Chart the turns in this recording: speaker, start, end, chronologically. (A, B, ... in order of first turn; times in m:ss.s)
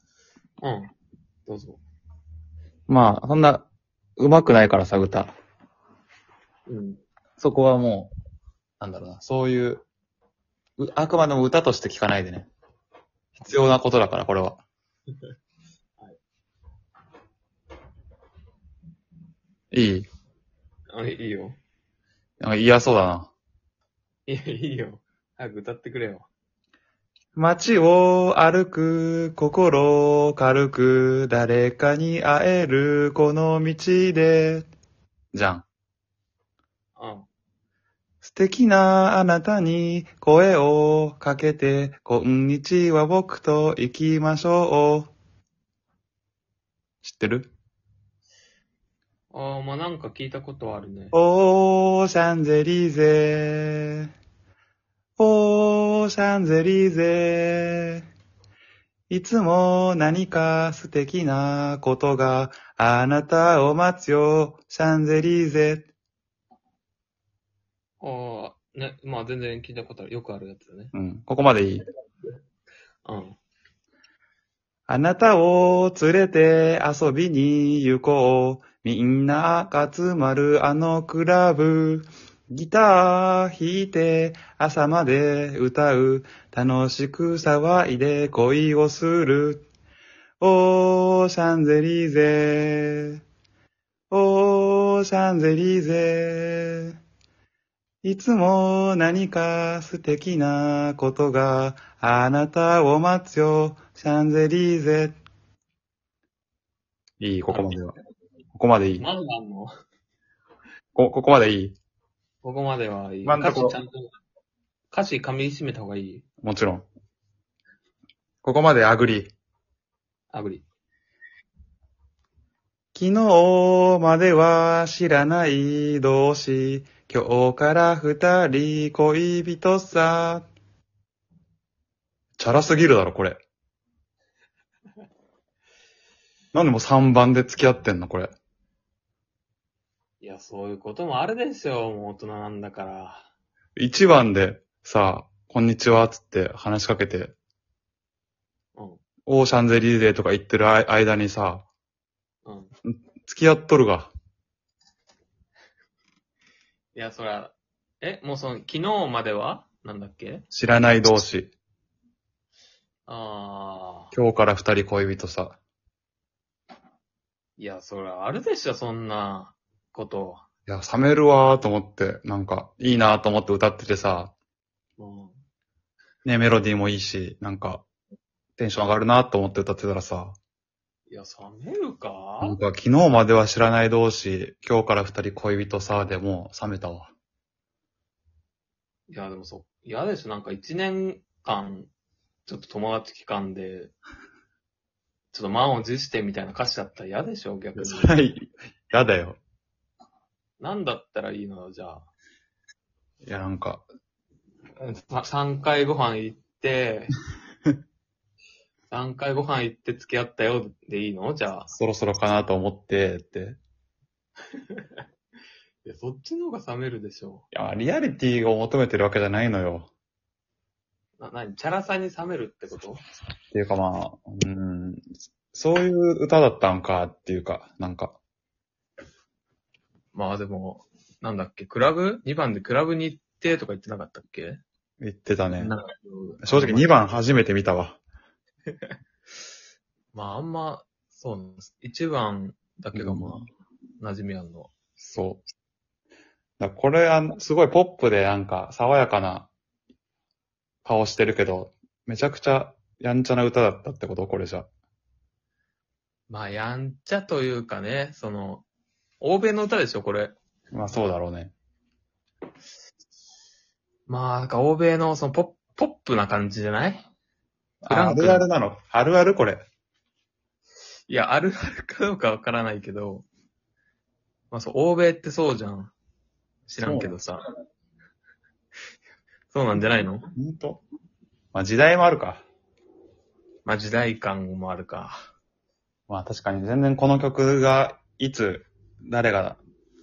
0:00.6-0:00.9 A
0:01.5-0:01.8 A
0:02.9-0:03.7 B
0:04.2-0:05.3 B
0:06.7-0:07.0 A
0:07.4-0:08.1 B
0:08.8-0:09.8 B
0:10.8-0:12.5 B
0:13.4-0:14.6 B
0:19.7-0:20.1 B
0:20.9-0:21.6 A
0:22.4-0:23.3 B
0:24.3-0:26.3 A
0:27.4-0:34.7 B
0:35.3-0:35.7 B
0:37.0-0:37.3 A
0:38.2-0:45.1 B
0:47.0-0:47.5 B
0:49.3-0:51.1 A
0:51.1-0:54.1 B
0:55.2-0:58.0 B
0:59.1-1:05.9 B
1:08.0-1:10.9 A
1:10.9-1:11.8 B
1:13.0-1:13.4 A
1:14.9-1:29.7 B
1:30.4-1:33.2 B
1:34.1-1:37.0 B
1:38.0-1:45.2 B
1:47.2-1:47.9 B
1:47.5-1:47.8 A
1:48.6-1:49.1 B
1:49.0-1:49.7 A
1:51.0-1:51.8 B
1:52.4-1:54.1 A
1:53.3-1:53.8 B
1:54.9-1:56.2 A
1:56.4-1:56.9 B
1:58.4-1:59.3 B
2:00.3-2:00.7 A
2:03.0-2:10.5 B
2:12.4-2:13.4 B
2:16.5-2:18.3 B
2:20.2-2:23.3 A
2:23.8-2:27.4 B
2:28.8-2:29.0 A
2:29.3-2:31.7 B
2:32.4-2:32.7 A
2:32.8-2:34.1 B
2:36.9-2:41.1 A
2:40.5-2:41.5 B
2:43.1-2:44.1 A
2:44.1-2:45.6 B
2:47.6-2:50.5 A
2:50.7-2:54.3 B
2:55.0-2:55.4 A
2:56.2-2:57.8 B
2:58.6-3:00.4 B
3:01.1-3:02.6 A
3:02.4-3:07.1 B
3:09.1-3:11.9 A
3:12.5-3:13.9 A
3:15.3-3:18.2 A
3:17.8-3:19.4 B
3:20.6-3:22.1 A
3:23.2-3:23.9 B
3:24.8-3:27.1 A
3:28.9-3:31.7 A
3:31.7-3:33.6 B
3:34.5-3:35.0 A
3:35.8-3:37.4 A
3:37.5-3:39.9 B
3:41.2-3:43.0 A
3:43.5-3:48.2 B
3:50.1-3:54.6 A
3:55.0-3:55.8 B
3:55.6-3:57.0 A
3:56.4-3:58.0 B
4:00.1-4:03.4 A
4:03.0-4:03.5 B
4:04.0-4:04.7 A
4:05.0-4:05.4 B
4:06.6-4:09.5 B
4:10.8-4:14.7 B
4:16.3-4:18.6 A
4:19.2-4:20.4 A
4:20.7-4:21.5 B
4:24.1-4:27.0 A
4:27.8-4:29.6 B
4:27.9-4:28.5 A
4:31.1-4:33.3 A
4:34.5-4:35.9 A
4:36.7-4:37.4 A
4:36.7-4:37.2 B
4:39.5-4:40.3 A
4:40.4-4:40.8 B
4:41.5-4:42.4 B
4:43.6-4:45.3 A
4:46.1-4:49.6 B